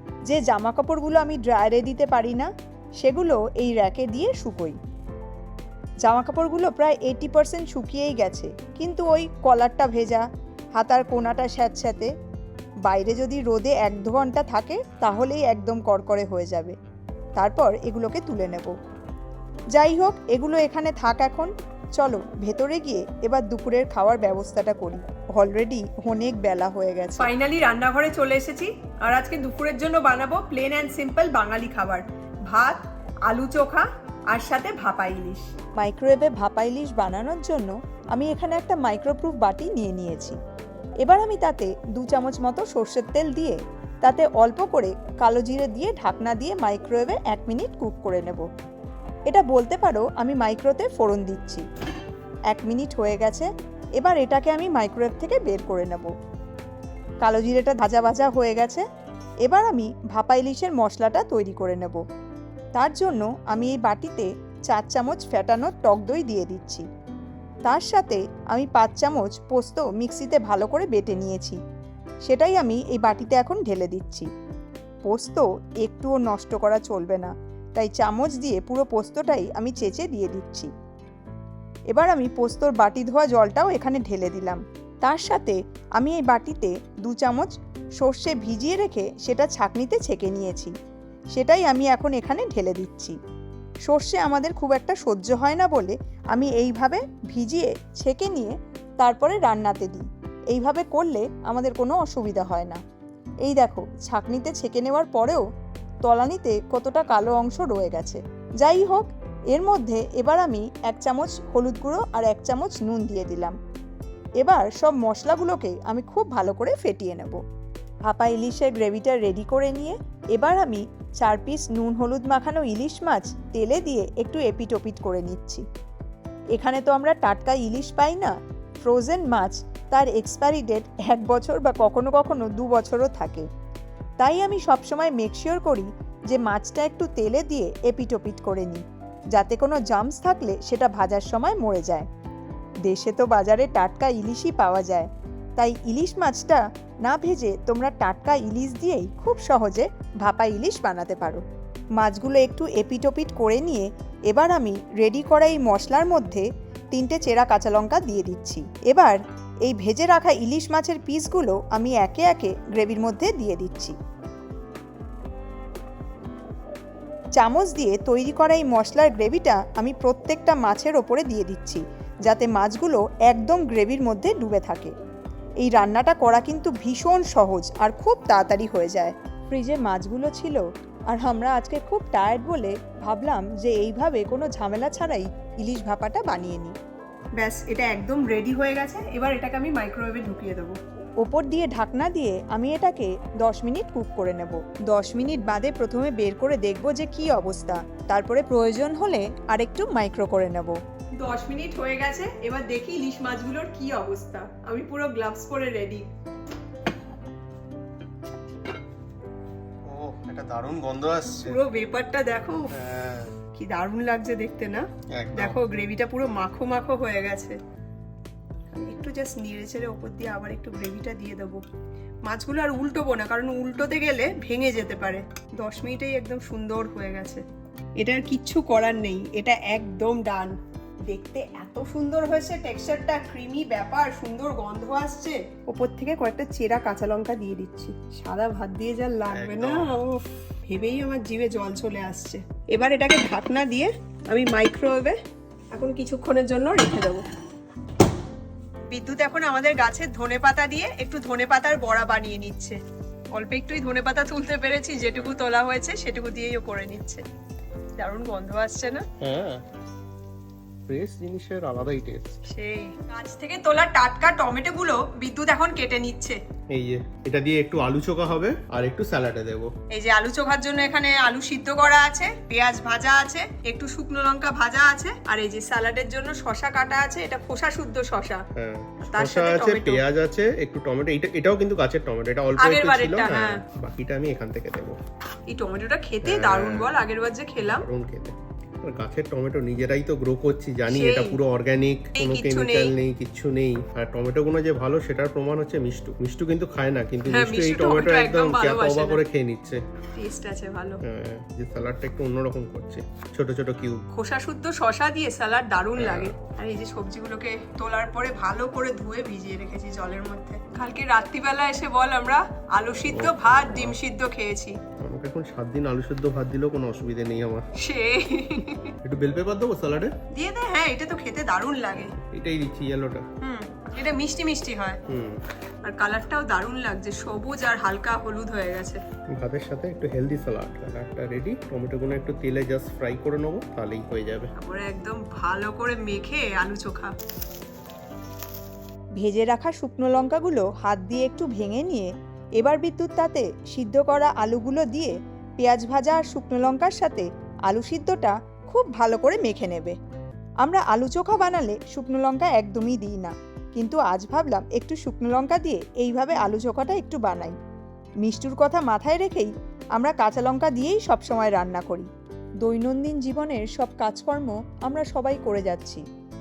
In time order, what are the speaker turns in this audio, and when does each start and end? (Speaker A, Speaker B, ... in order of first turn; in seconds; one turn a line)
Speaker A: 0.3-2.5
Speaker A: 3.0-4.8
Speaker A: 6.0-10.2
Speaker A: 10.8-12.1
Speaker A: 12.8-16.7
Speaker A: 17.4-18.7
Speaker A: 19.7-27.3
Speaker B: 27.2-35.5
Speaker A: 35.8-40.4
Speaker A: 41.0-48.4
Speaker A: 49.3-51.6
Speaker A: 52.5-56.1
Speaker A: 57.2-58.8
Speaker A: 59.5-62.0
Speaker A: 62.8-66.8
Speaker A: 67.6-71.6
Speaker A: 72.2-74.3
Speaker A: 75.1-80.7
Speaker A: 81.9-87.5
Speaker A: 88.0-90.7
Speaker A: 91.3-93.2
Speaker A: 93.9-102.8
Speaker A: 103.4-105.4
Speaker A: 106.0-113.5
Speaker A: 114.4-117.4
Speaker A: 118.1-125.6
Speaker A: 126.5-128.3
Speaker A: 128.8-133.4
Speaker A: 134.2-138.8
Speaker A: 139.3-142.1
Speaker A: 142.9-151.4
Speaker A: 152.0-163.9
Speaker A: 167.4-174.9
Speaker A: 175.6-186.8
Speaker B: 187.4-190.8
Speaker A: 191.2-200.8
Speaker B: 201.2-206.1
Speaker C: 209.9-211.6
Speaker B: 211.4-212.7
Speaker C: 212.7-213.3
Speaker B: 213.5-217.6
Speaker C: 215.2-215.6
Speaker B: 218.7-221.6
Speaker B: 222.3-227.4
Speaker B: 228.0-230.6
Speaker B: 231.1-235.4
Speaker A: 235.7-236.9
Speaker B: 236.8-245.2
Speaker A: 237.5-237.9
Speaker C: 239.3-240.0
Speaker B: 245.7-247.2
Speaker B: 248.9-252.8
Speaker B: 253.3-257.2
Speaker C: 255.0-255.3
Speaker B: 258.0-259.1
Speaker C: 259.2-259.6
Speaker C: 260.9-262.4
Speaker B: 262.5-266.4
Speaker C: 266.7-269.7
Speaker B: 269.9-278.4
Speaker C: 278.6-285.0
Speaker B: 279.1-280.0
Speaker B: 282.6-283.6
Speaker B: 285.5-287.9
Speaker C: 286.2-286.9
Speaker C: 287.6-299.8
Speaker B: 290.9-291.4
Speaker B: 292.1-292.9
Speaker B: 297.3-299.2
Speaker B: 300.1-301.0
Speaker C: 301.1-304.0
Speaker B: 304.1-314.8
Speaker C: 306.0-306.3
Speaker C: 313.1-314.0
Speaker C: 315.0-317.6
Speaker B: 317.8-318.9
Speaker C: 319.1-320.1
Speaker B: 320.3-322.1
Speaker C: 322.2-323.2
Speaker B: 323.4-325.0
Speaker C: 325.1-325.4
Speaker B: 325.8-329.0
Speaker C: 329.4-334.5
Speaker B: 334.6-337.1
Speaker A: 339.2-349.9
Speaker A: 350.6-357.6
Speaker A: 358.2-362.1
Speaker A: 362.6-366.0